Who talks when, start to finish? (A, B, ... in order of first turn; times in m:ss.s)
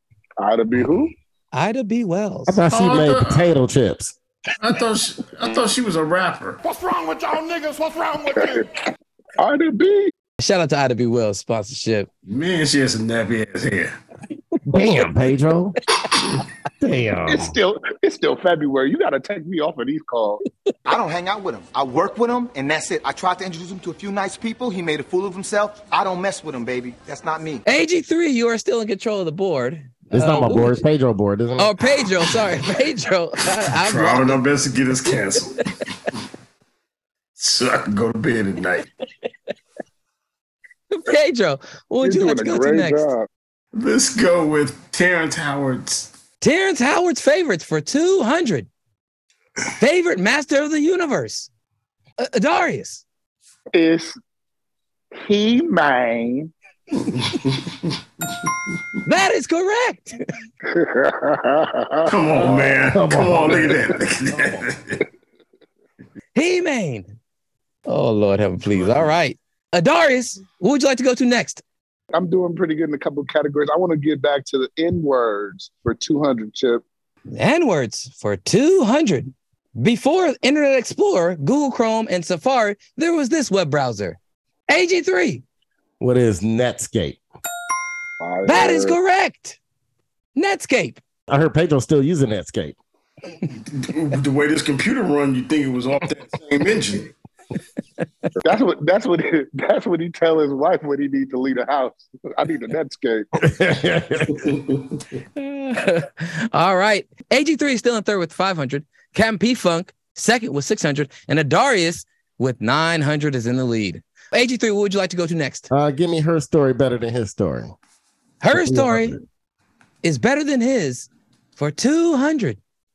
0:00.4-0:01.1 A
0:01.5-0:02.6 B
0:02.5-0:04.2 C
0:02.7-0:03.5 D
0:04.6-0:06.6 D
0:06.6-0:08.7 E
0:09.4-0:10.1 A
0:10.4-0:12.1 B
0:12.3-0:14.0 D
0:14.7-0:15.8 C
0:16.8-0:17.6 C
0:17.3-0:20.4 A
0:20.8-0:27.6 F
0:27.6-0:30.8 B
0:30.1-0:31.7 C
0:31.6-0:34.4 B
0:33.8-0:35.6 D
0:37.4-0:38.9 D
0:40.9-0:43.1 B
0:42.0-0:43.3 A
0:43.7-0:46.1 D
0:46.4-0:48.7 B
0:49.8-0:51.5 B
0:52.2-0:53.0 B
0:53.8-0:54.2 A
0:55.2-0:56.5 A
0:57.2-0:57.6 D
0:59.0-1:00.2 B
1:00.7-1:02.8 A
1:02.1-1:05.0 D
1:02.9-1:03.9 C
1:06.4-1:07.2 B
1:07.9-1:11.6 B
1:12.1-1:16.8 A
1:17.3-1:24.2 B
1:24.7-1:25.4 B
1:26.0-1:27.2 C
1:28.2-1:29.0 A
1:28.5-1:29.6 B
1:30.4-1:31.0 B
1:31.3-1:32.8 C
1:33.7-1:37.1 D
1:38.4-1:43.3 A
1:43.4-1:44.5 C
1:45.4-1:55.7 B
1:55.7-1:57.8 C
1:58.4-1:59.2 B
1:58.5-1:59.2 C
2:00.0-2:02.6 B